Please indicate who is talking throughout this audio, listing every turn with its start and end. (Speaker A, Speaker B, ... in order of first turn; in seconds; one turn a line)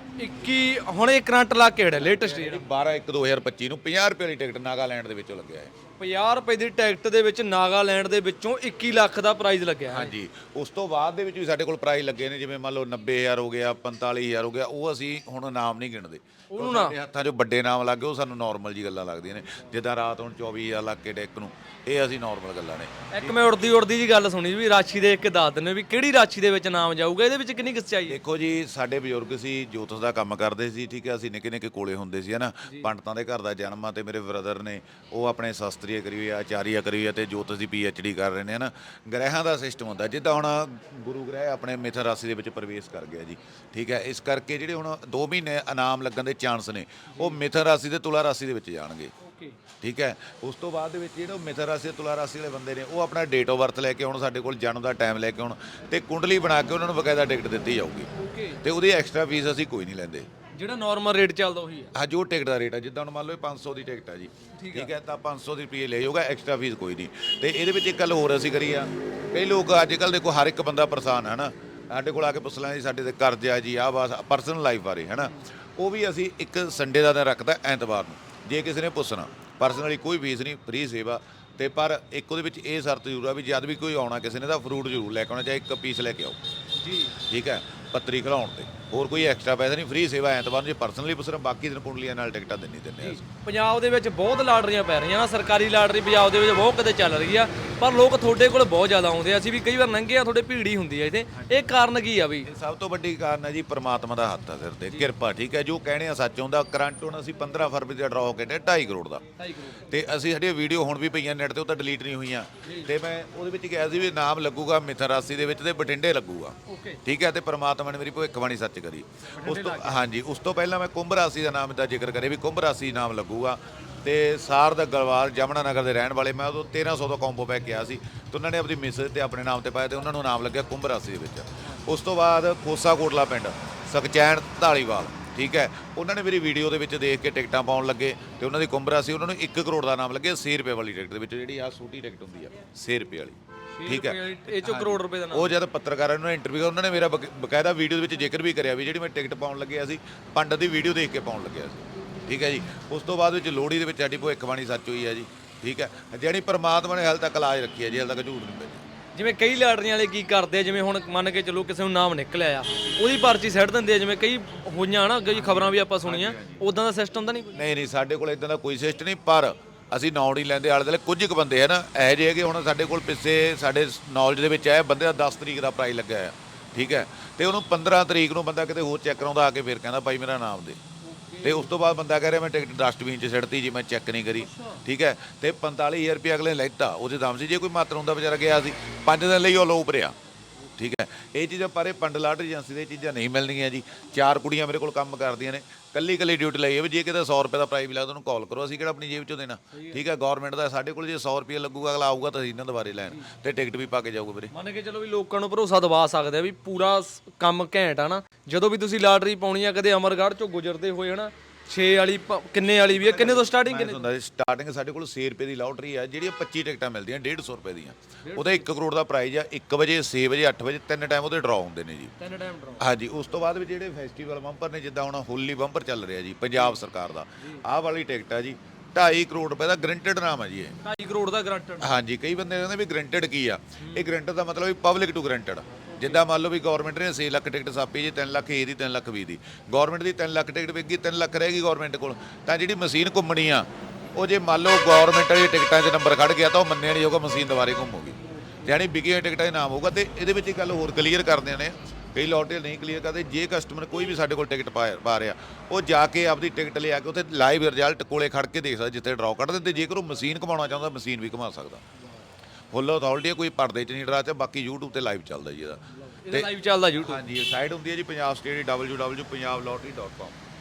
Speaker A: 0.2-2.6
Speaker B: 2.0-5.7
Speaker A: 6.0-10.1
Speaker B: 9.9-23.4
Speaker A: 16.5-16.9
Speaker A: 23.1-28.2
Speaker B: 28.1-49.1
Speaker A: 47.1-47.4
Speaker A: 49.2-49.6
Speaker B: 49.8-60.3
Speaker A: 58.1-58.6
Speaker A: 60.5-61.9
Speaker B: 61.9-86.4
Speaker A: 64.6-64.9
Speaker A: 86.8-87.2
Speaker B: 87.2-93.2
Speaker A: 93.0-102.5
Speaker B: 102.4-158.8
Speaker A: 109.4-109.8
Speaker A: 112.6-112.9
Speaker A: 116.7-117.0
Speaker A: 119.3-120.0
Speaker A: 143.7-145.6
Speaker A: 159.1-167.6
Speaker B: 165.3-166.6
Speaker B: 167.5-180.8
Speaker A: 181.0-181.7
Speaker B: 181.4-190.2
Speaker A: 184.4-184.8
Speaker B: 190.8-204.5
Speaker A: 199.7-200.0
Speaker A: 204.5-214.1
Speaker B: 212.9-222.1
Speaker A: 218.2-218.7
Speaker A: 222.2-222.8
Speaker B: 222.8-230.8
Speaker A: 227.4-227.6
Speaker A: 230.8-231.9
Speaker B: 231.8-261.8
Speaker A: 233.8-234.1
Speaker A: 235.8-236.2
Speaker A: 248.4-248.7
Speaker A: 262.0-262.2
Speaker B: 262.7-270.4
Speaker A: 265.9-267.2